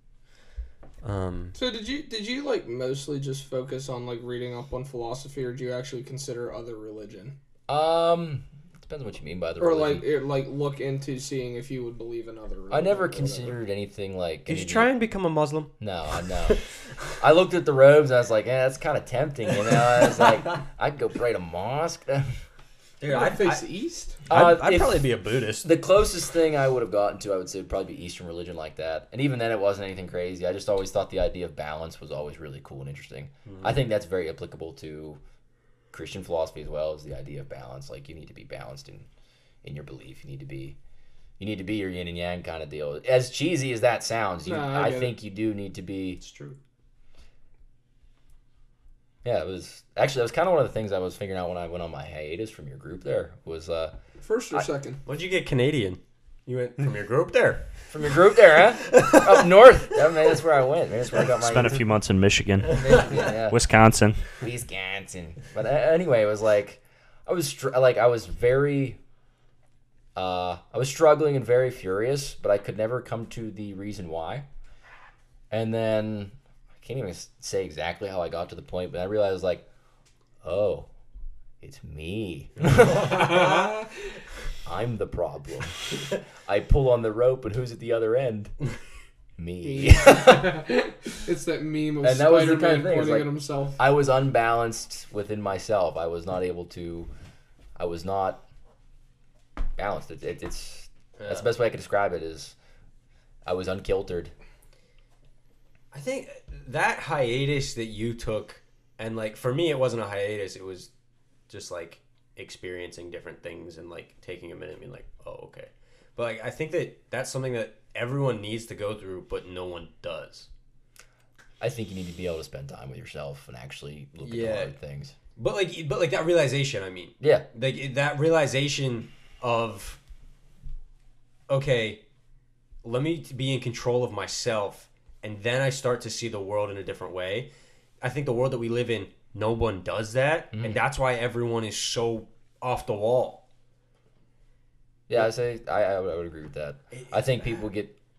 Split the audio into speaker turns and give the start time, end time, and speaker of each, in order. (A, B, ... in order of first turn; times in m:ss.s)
0:01.0-0:01.6 A
0:01.6-0:07.4 B
0:07.7-0:10.0 C
0:09.6-0:13.6 B
0:12.7-0:14.9 C
0:14.5-0:15.7 A
0:15.8-0:16.6 C
0:17.2-0:22.3 C
0:23.0-0:23.6 A
0:23.1-0:24.2 B
0:24.3-0:25.1 C
0:24.3-0:25.7 A
0:25.6-0:35.2 C
0:33.5-0:33.7 A
0:35.9-0:39.1 C
0:39.6-0:40.8 C
0:41.4-0:46.2 C
0:44.4-0:45.1 B
0:46.2-0:46.6 A
0:49.2-0:53.9 C
0:54.2-0:55.0 B
0:55.0-0:57.7 A
0:57.9-1:01.8 C
0:58.6-0:59.5 A
1:01.4-1:04.3 D
1:02.7-1:03.6 C
1:04.4-1:09.0 C
1:10.2-1:14.4 C
1:15.5-1:19.6 C
1:20.4-1:20.9 C
1:21.6-1:23.6 C
1:23.1-1:23.7 B
1:24.6-1:28.5 C
1:29.4-1:30.6 C
1:29.6-1:33.8 B
1:32.0-1:37.1 C
1:37.8-1:38.4 C
1:39.8-1:42.6 C
1:41.2-1:41.4 A
1:43.5-1:44.3 C
1:45.9-1:50.9 A
1:51.5-2:00.5 A
2:01.6-2:05.2 C
2:04.2-2:04.7 A
2:05.4-2:10.0 A
2:07.2-2:07.5 C
2:11.5-2:12.0 A
2:12.8-2:17.5 A
2:18.0-2:23.4 A
2:20.5-2:20.8 C
2:25.1-2:27.9 C
2:26.9-2:27.4 A